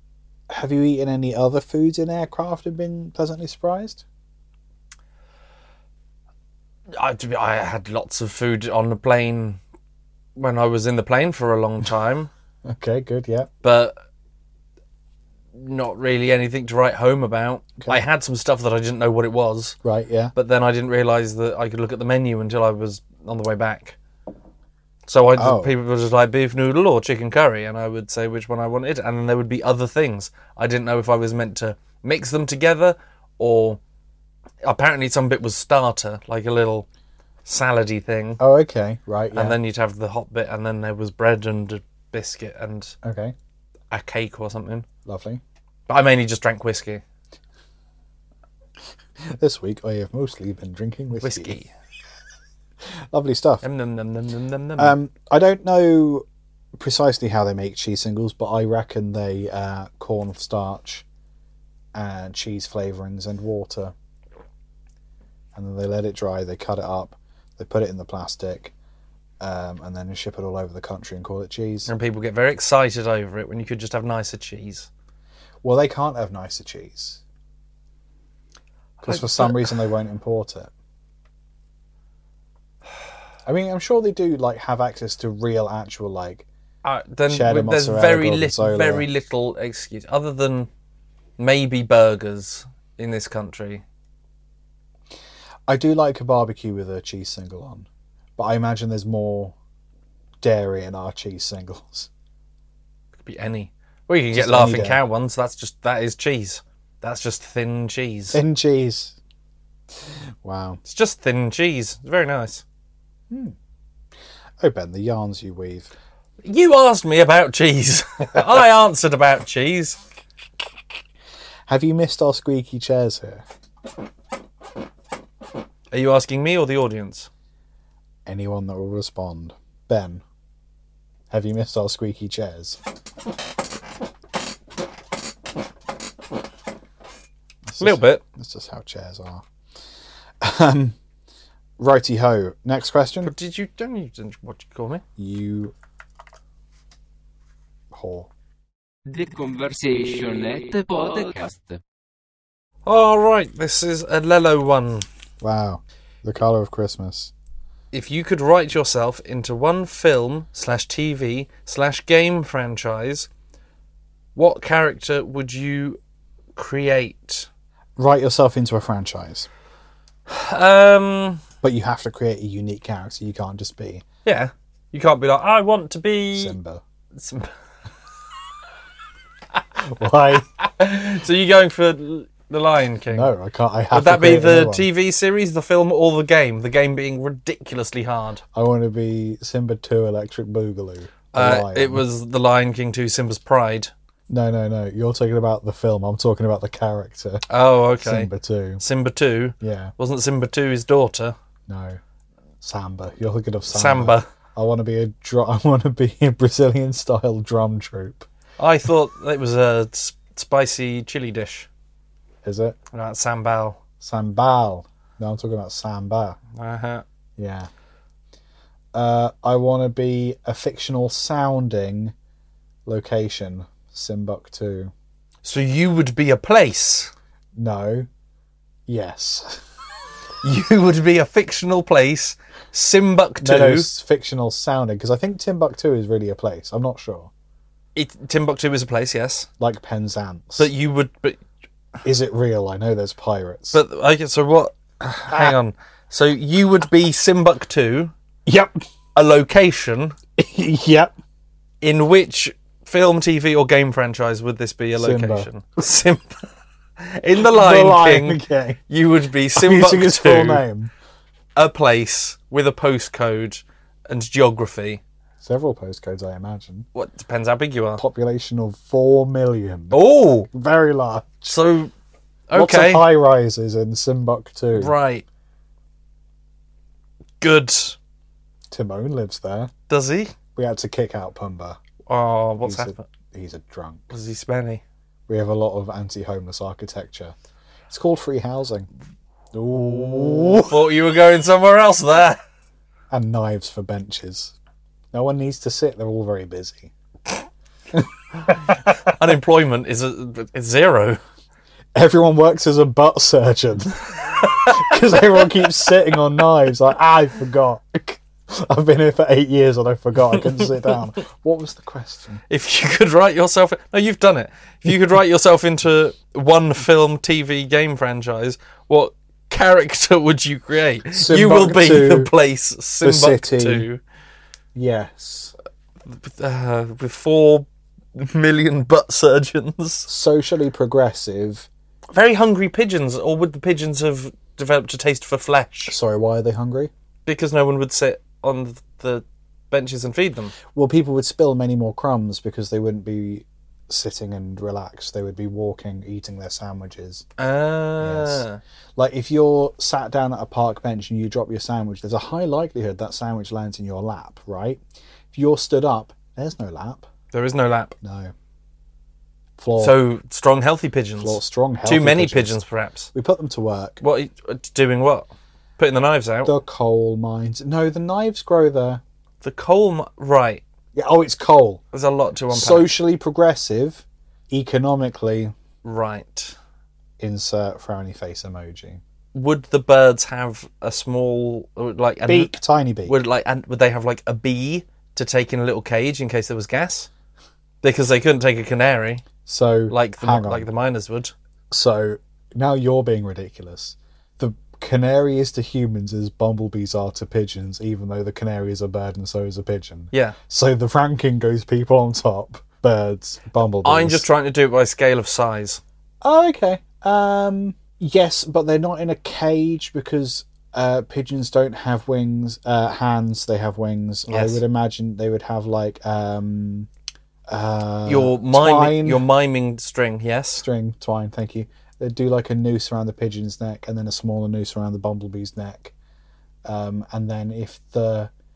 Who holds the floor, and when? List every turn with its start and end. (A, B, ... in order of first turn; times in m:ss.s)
0:00.5-0:04.0 A
0:06.9-0:09.6 B
0:10.4-0:12.3 B
0:12.6-0:13.5 A
0:13.6-0:13.9 B
0:15.5-0:19.8 B
0:19.8-0:20.3 A
0:20.3-0:24.0 B
0:25.1-0:33.8 B
0:25.4-0:25.7 A
0:34.6-0:36.9 B
0:37.4-0:38.4 B
0:38.4-0:39.6 A
0:39.3-0:43.0 B
0:43.0-0:43.3 A
0:43.9-0:44.8 B
0:45.0-0:45.4 A
0:45.9-0:47.0 B
0:49.2-0:51.6 A
0:51.2-0:51.7 B
0:53.1-0:53.6 A
0:53.6-0:54.9 B
0:54.8-1:01.0 A
1:01.9-1:03.9 A
1:05.5-1:08.7 A
1:09.4-1:11.9 A
1:11.9-1:14.9 B
1:15.6-1:17.2 A
1:19.0-1:19.7 B
1:19.0-1:20.7 A
1:23.4-1:26.4 A
1:26.8-1:30.7 B
1:27.3-1:29.1 A
1:31.4-1:33.8 B
1:35.7-1:39.5 A
1:40.4-1:42.1 A
1:43.2-1:48.4 B
1:44.3-1:45.0 A
1:48.3-1:49.2 A
1:50.4-1:50.8 A
1:50.8-1:52.6 B
1:53.3-1:53.5 A
1:54.6-1:55.9 A
1:56.4-2:00.0 B
2:01.7-2:03.4 A
2:05.9-2:07.3 B
2:08.2-2:10.2 A
2:11.3-2:12.8 A
2:17.6-2:19.4 A
2:17.8-2:18.2 B
2:20.4-2:21.0 A
2:21.8-2:23.3 A
2:23.2-2:25.0 B
2:25.2-2:25.7 A
2:27.9-2:28.3 A
2:29.0-2:31.8 C
2:32.8-2:35.1 B
2:35.4-2:37.3 A
2:37.9-2:43.3 B
2:44.4-2:46.0 B
2:46.6-2:47.5 B
2:48.0-2:49.5 A
2:50.3-2:51.4 B
2:51.6-2:54.0 A
2:54.2-2:56.6 B
2:56.3-2:56.8 A
2:57.1-2:57.5 B
2:59.8-3:00.4 A
3:00.6-3:03.3 B
3:03.1-3:04.9 A
3:03.9-3:08.4 B
3:08.5-3:12.0 A
3:11.3-3:13.9 B
3:14.3-3:17.5 A
3:17.5-3:21.3 B
3:18.0-3:18.8 A
3:19.6-3:19.9 A
3:21.7-3:22.0 A
3:22.6-3:28.3 A
3:23.7-3:24.2 B
3:28.6-3:31.7 B
3:32.4-3:32.8 A
3:32.9-3:33.8 B
3:34.0-3:36.4 A
3:36.5-3:37.0 B
3:37.4-3:37.7 A
3:38.9-3:42.1 A
3:42.8-3:44.9 A
3:45.4-3:47.1 B
3:47.6-3:48.1 A
3:48.9-3:49.6 A
3:50.4-3:53.9 B
3:53.4-3:57.3 A
3:57.9-3:59.5 B
3:59.6-4:00.7 A
4:00.6-4:01.4 B
4:02.0-4:03.8 A
4:03.7-4:08.1 B
4:05.3-4:05.6 A
4:08.4-4:08.8 A
4:09.2-4:10.2 B
4:10.4-4:11.1 A
4:11.8-4:16.5 B
4:15.0-4:15.5 A
4:17.0-4:20.6 B
4:17.4-4:18.8 A
4:19.6-4:20.9 A
4:21.6-4:25.0 B
4:25.4-4:26.9 A
4:26.9-4:28.0 B
4:28.0-4:31.4 A
4:29.9-4:30.5 B
4:31.4-4:31.9 B
4:32.5-4:33.1 B
4:32.5-4:34.9 A
4:34.7-4:35.2 B
4:37.4-4:38.0 B
4:38.7-4:39.7 A
4:39.9-4:40.3 B
4:40.5-4:41.8 A
4:42.1-4:43.0 B
4:42.6-4:44.1 A
4:44.1-4:44.8 B
4:45.3-4:47.3 A
4:47.9-4:48.9 A
4:49.5-4:50.8 A
4:49.8-4:52.4 B
4:53.1-4:54.5 A
4:55.1-4:56.9 A
4:57.9-4:59.0 A
4:59.0-5:01.2 B
5:01.9-5:12.4 A
5:04.4-5:04.9 B
5:12.5-5:24.0 B
5:21.1-5:22.3 A
5:23.0-5:23.8 A
5:24.7-5:25.5 A
5:26.0-5:30.1 B
5:30.1-5:31.7 A
5:32.1-5:36.0 B
5:35.9-5:36.9 A
5:37.2-5:40.5 B
5:40.7-5:47.2 A
5:47.4-5:48.6 B
5:48.0-5:48.4 A
5:49.0-5:54.8 A
5:55.3-5:57.1 A
5:57.3-5:57.9 B
5:58.0-5:58.3 A
5:59.6-6:00.0 A
5:59.8-6:03.1 B
6:01.2-6:02.6 A
6:03.1-6:04.0 A
6:04.0-6:06.5 B
6:06.4-6:09.0 A
6:09.4-6:10.6 B
6:10.9-6:11.8 A
6:11.9-6:12.9 B
6:12.5-6:15.5 A
6:15.8-6:16.6 B
6:17.2-6:19.0 A
6:19.3-6:27.1 B
6:22.2-6:23.2 A
6:27.8-6:29.2 B
6:29.4-6:30.7 A
6:29.9-6:31.3 B
6:31.7-6:44.3 A
6:43.8-6:45.8 B
6:46.2-6:56.9 A
6:54.3-6:54.6 B
6:57.5-6:59.2 A
6:58.0-7:00.7 B
7:00.6-7:05.9 A
7:06.6-7:08.3 A